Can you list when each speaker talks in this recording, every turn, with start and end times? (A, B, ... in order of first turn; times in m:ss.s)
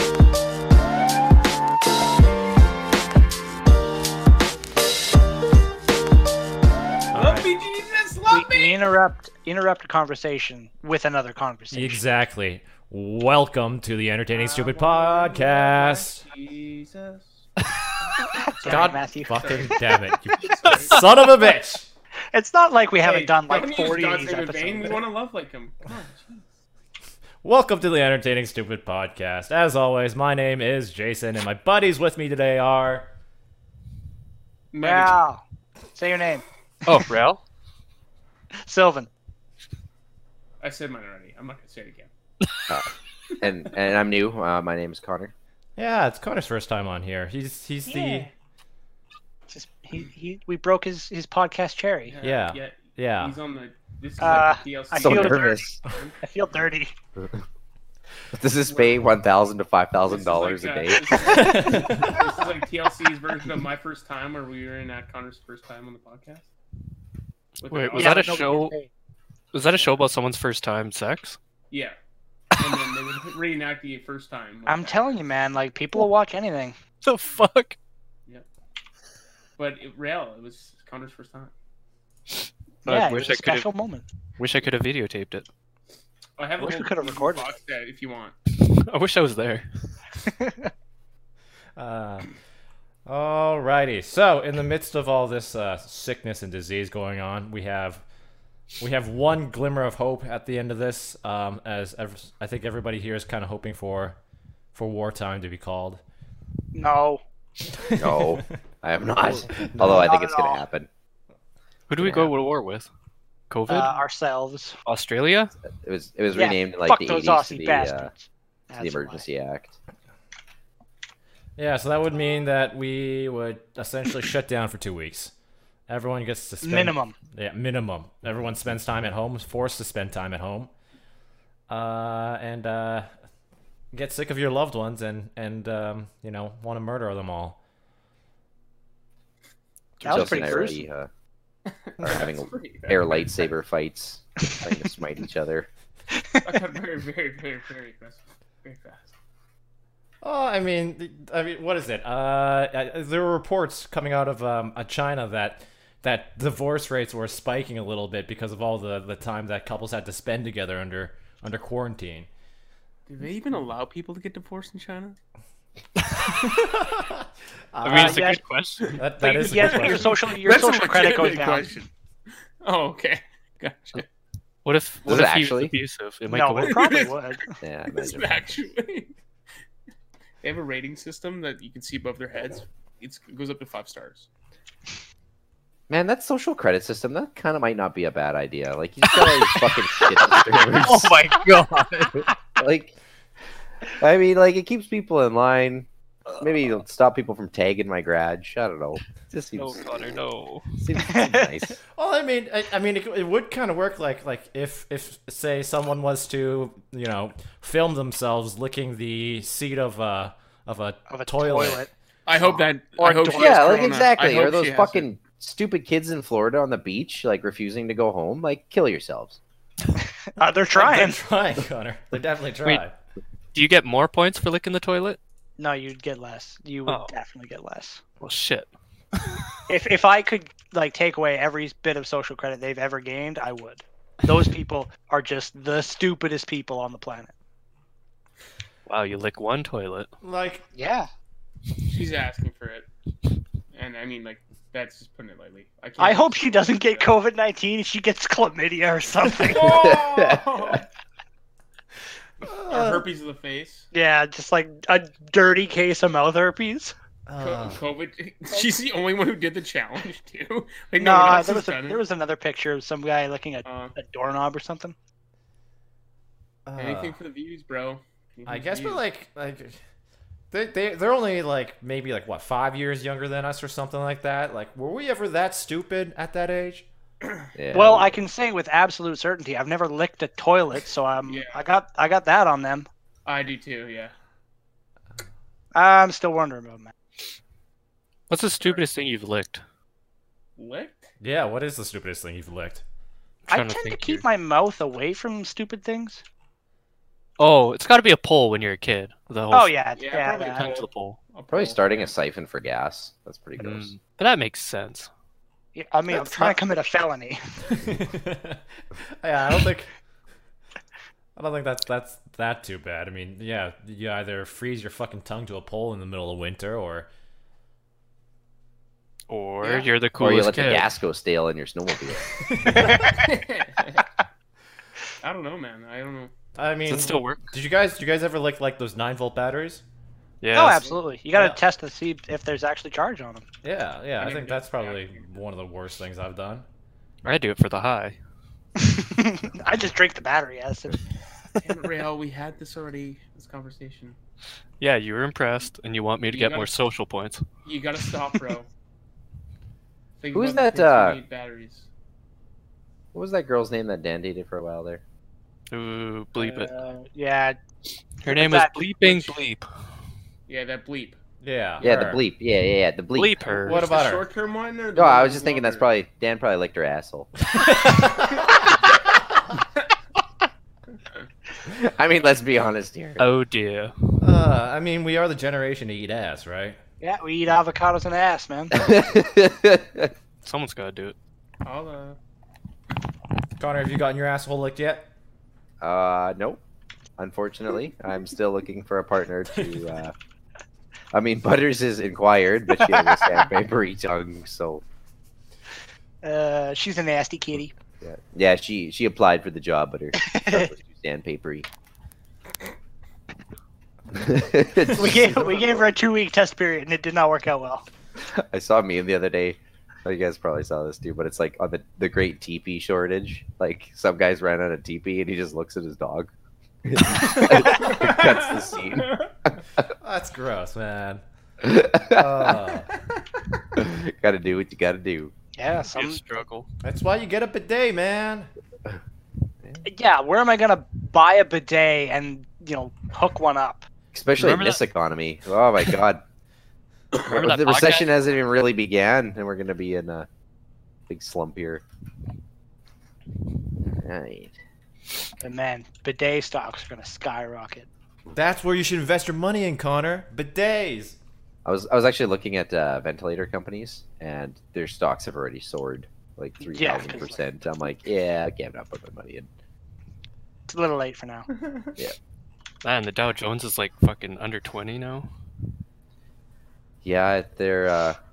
0:07.1-0:07.5 A
0:07.1-0:08.9 B
0:08.3-0:12.0 C
0:11.7-0:16.3 A
0:14.3-0:17.5 B
0:18.0-0:21.1 B
0:18.3-0:20.0 C
0:18.6-0:21.9 A
0:22.3-0:25.0 C
0:23.0-0:26.5 B
0:27.4-0:33.1 A
0:34.7-0:35.2 B
0:34.8-0:35.4 C
0:35.9-0:36.4 C
0:36.9-0:37.4 D
0:38.6-0:39.1 C
0:40.6-0:42.1 B
0:42.7-0:45.3 E
0:45.8-0:48.3 A
0:47.9-0:48.3 C
0:49.5-0:52.2 C
0:52.1-0:56.2 B
0:52.2-0:53.4 A
0:54.2-0:56.9 C
0:55.0-0:55.7 E
0:58.3-1:01.6 E
0:58.6-0:59.0 B
1:00.1-1:06.5 B
1:01.2-1:02.3 A
1:07.6-1:08.5 B
1:07.7-1:08.7 D
1:07.9-1:08.9 C
1:09.5-1:11.4 D
1:11.7-1:12.0 B
1:12.6-1:15.0 B
1:14.7-1:16.8 C
1:17.0-1:17.8 D
1:19.6-1:21.5 B
1:22.8-1:23.7 D
1:22.9-1:24.0 C
1:24.4-1:25.5 D
1:26.4-1:28.4 B
1:26.6-1:27.6 C
1:28.6-1:29.9 D
1:30.4-1:30.7 C
1:31.8-1:32.3 A
1:33.1-1:38.0 A
1:38.8-1:44.2 A
1:44.7-1:46.0 A
1:46.7-1:47.2 C
1:47.8-1:48.4 A
1:48.0-1:50.9 E
1:49.5-1:50.1 A
1:49.8-1:50.6 C
1:51.9-1:52.9 D
1:52.0-1:52.3 E
1:53.5-1:54.0 D
1:53.7-1:54.8 C
1:54.8-1:55.5 D
1:55.8-1:58.1 E
1:56.4-1:59.3 C
1:58.8-1:59.8 E
2:01.6-2:05.3 A
2:05.9-2:10.7 A
2:06.6-2:07.2 C
2:11.7-2:13.1 A
2:13.9-2:17.6 A
2:20.0-2:20.7 D
2:20.0-2:20.8 C
2:20.0-2:21.1 E
2:21.7-2:23.4 B
2:22.0-2:25.7 E
2:26.4-2:29.1 B
2:30.2-2:42.3 A
2:43.1-2:45.2 B
2:46.3-2:48.4 A
2:47.8-2:49.0 D
2:47.9-2:48.4 C
2:48.8-2:51.9 B
2:49.0-2:50.3 A
2:49.2-2:51.7 C
2:52.6-2:54.1 B
2:54.6-2:57.1 D
2:55.1-2:55.8 E
2:56.3-2:57.5 C
2:56.6-2:57.2 B
2:57.6-2:58.6 E
2:57.9-2:59.1 B
3:00.4-3:04.3 B
3:05.9-3:11.3 E
3:10.8-3:12.1 D
3:12.2-3:13.0 E
3:13.9-3:15.9 E
3:16.4-3:19.9 E
3:19.6-3:20.7 D
3:20.8-3:21.8 E
3:21.0-3:21.5 C
3:21.9-3:31.9 A
3:31.1-3:34.1 C
3:32.3-3:35.1 B
3:33.3-3:39.4 E
3:40.4-3:41.2 C
3:40.7-3:42.9 A
3:43.5-3:45.2 D
3:45.6-3:48.0 C
3:46.9-3:47.1 D
3:48.2-3:48.7 D
3:49.7-3:57.3 C
3:58.9-4:00.1 D
4:00.2-4:00.6 A
4:00.7-4:01.1 C
4:01.9-4:02.9 B
4:03.7-4:07.1 B
4:06.0-4:10.0 C
4:09.4-4:10.9 B
4:09.8-4:10.7 E
4:12.4-4:13.0 A
4:12.7-4:13.9 B
4:13.9-4:17.0 C
4:17.3-4:17.8 A
4:17.4-4:22.0 B
4:21.0-4:25.0 C
4:23.6-4:23.9 B
4:26.7-4:27.2 A
4:26.8-4:29.0 B
4:28.5-4:29.8 A
4:30.5-4:36.9 A
4:37.6-4:38.2 E
4:37.7-4:42.9 C
4:41.3-4:41.6 B
4:43.3-4:44.1 B
4:45.8-4:46.9 C
4:48.3-4:49.6 D
4:50.6-4:51.1 B
4:51.2-4:52.8 A
4:53.5-4:54.2 D
4:53.5-4:56.2 C
4:57.4-4:59.7 D
4:59.5-5:00.7 C
5:00.0-5:02.1 B
5:00.5-5:01.2 D
5:01.5-5:03.9 E
5:03.6-5:05.1 D
5:05.8-5:07.4 C
5:07.7-5:08.6 A
5:09.2-5:09.9 A
5:11.4-5:17.1 A
5:19.3-5:20.9 D
5:19.6-5:19.9 B
5:20.2-5:22.3 E
5:22.4-5:23.1 A
5:22.7-5:23.1 C
5:23.1-5:24.1 B
5:25.2-5:26.3 B
5:26.6-5:29.8 A
5:26.9-5:27.5 D
5:26.9-5:27.2 B
5:30.4-5:30.9 D
5:30.5-5:33.4 C
5:33.6-5:36.6 A
5:34.2-5:35.3 B
5:37.2-5:38.2 D
5:38.8-5:41.0 C
5:41.6-5:44.2 B
5:44.8-5:47.4 D
5:46.3-5:46.7 B
5:47.6-5:48.7 B
5:50.2-5:51.9 B
5:50.3-5:51.2 E
5:53.1-5:55.0 E
5:55.7-5:56.7 D
5:56.4-5:57.6 C
5:58.2-5:59.7 D
5:58.3-5:59.4 C
6:00.5-6:01.2 B
6:01.4-6:02.2 A
6:01.8-6:03.6 E
6:03.1-6:03.8 D
6:03.6-6:04.3 A
6:03.7-6:05.9 B
6:05.0-6:07.3 E
6:07.5-6:08.8 A
6:11.6-6:13.2 E
6:13.2-6:14.2 D
6:14.2-6:16.8 A
6:17.0-6:18.8 C
6:18.7-6:20.1 E
6:20.4-6:21.2 D
6:21.6-6:22.2 B
6:23.6-6:25.1 A
6:25.8-6:26.6 E
6:27.2-6:30.1 E
6:31.1-6:34.8 E
6:32.8-6:33.4 C
6:36.2-6:37.7 C
6:38.0-6:41.7 E
6:40.2-6:40.7 C
6:44.1-6:45.8 E
6:44.9-6:47.9 C
6:48.2-6:56.3 E
6:56.8-6:59.1 E
6:57.7-6:59.3 B
7:00.0-7:01.2 A
7:01.6-7:02.5 E
7:02.1-7:02.9 A
7:03.8-7:05.3 E
7:05.6-7:06.2 C
7:05.9-7:06.7 D
7:06.8-7:08.5 A
7:09.8-7:13.9 C
7:14.1-7:16.2 E
7:14.4-7:14.8 D
7:17.2-7:18.1 D
7:17.3-7:20.3 E
7:21.1-7:21.8 E
7:23.8-7:24.5 E
7:25.4-7:27.9 C
7:28.3-7:31.2 A
7:31.6-7:39.5 E
7:36.6-7:37.4 C
7:40.7-7:41.5 C
7:41.6-7:41.9 B
7:42.8-7:45.3 D
7:47.0-7:48.2 E